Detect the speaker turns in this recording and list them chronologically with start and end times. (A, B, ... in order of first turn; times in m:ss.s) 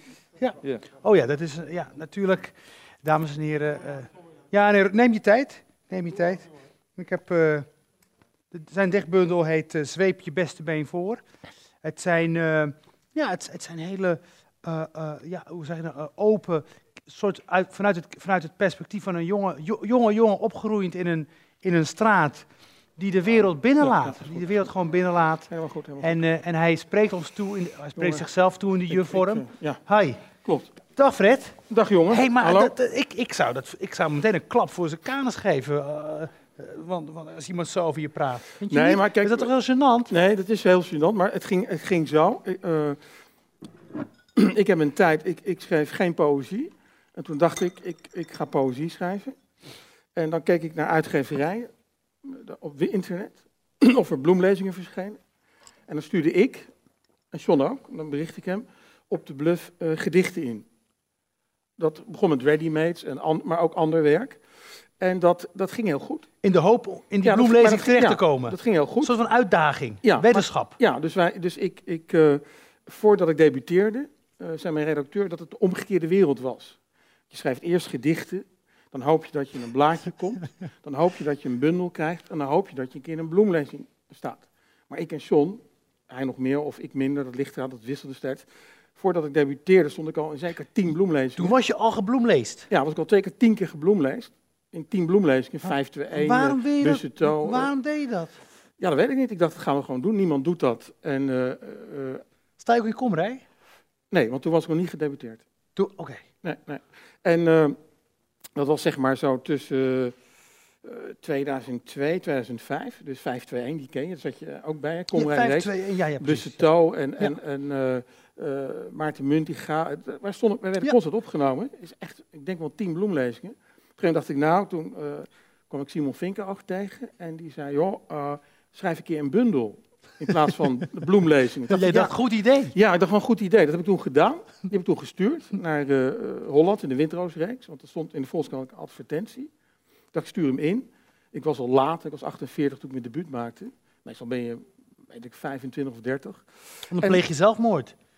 0:00.4-0:07.7 A
0:08.5-0:11.2 A
0:11.8-0:25.5 A
0:23.8-0:24.4 B
0:25.5-0:26.2 B
0:26.0-0:30.2 A
0:28.0-0:28.3 B
0:28.9-0:29.8 B
0:30.4-0:30.7 B
0:30.9-0:31.6 A
0:31.7-0:32.8 B
0:32.1-0:40.1 A
0:38.7-0:39.5 B
0:40.1-0:43.0 B
0:44.4-0:49.4 B
0:50.2-0:51.7 B
0:52.2-0:55.2 B
0:55.9-0:56.7 B
0:57.3-1:00.7 B
1:01.8-1:04.4 B
1:05.0-1:06.3 B
1:06.4-1:10.8 A
1:07.2-1:09.1 B
1:10.0-1:16.8 B
1:17.3-1:31.6 B
1:31.4-1:32.7 A
1:32.7-1:37.7 B
1:35.7-1:38.4 A
1:38.8-1:42.2 B
1:42.6-1:43.4 A
1:44.1-1:45.4 B
1:45.8-1:46.2 A
1:46.4-1:47.8 B
1:48.6-1:50.2 B
1:50.8-2:12.2 B
1:55.1-1:56.6 A
2:11.7-2:12.8 A
2:12.7-2:19.5 B
2:20.1-2:26.4 B
2:26.9-2:27.9 A
2:27.0-2:27.2 B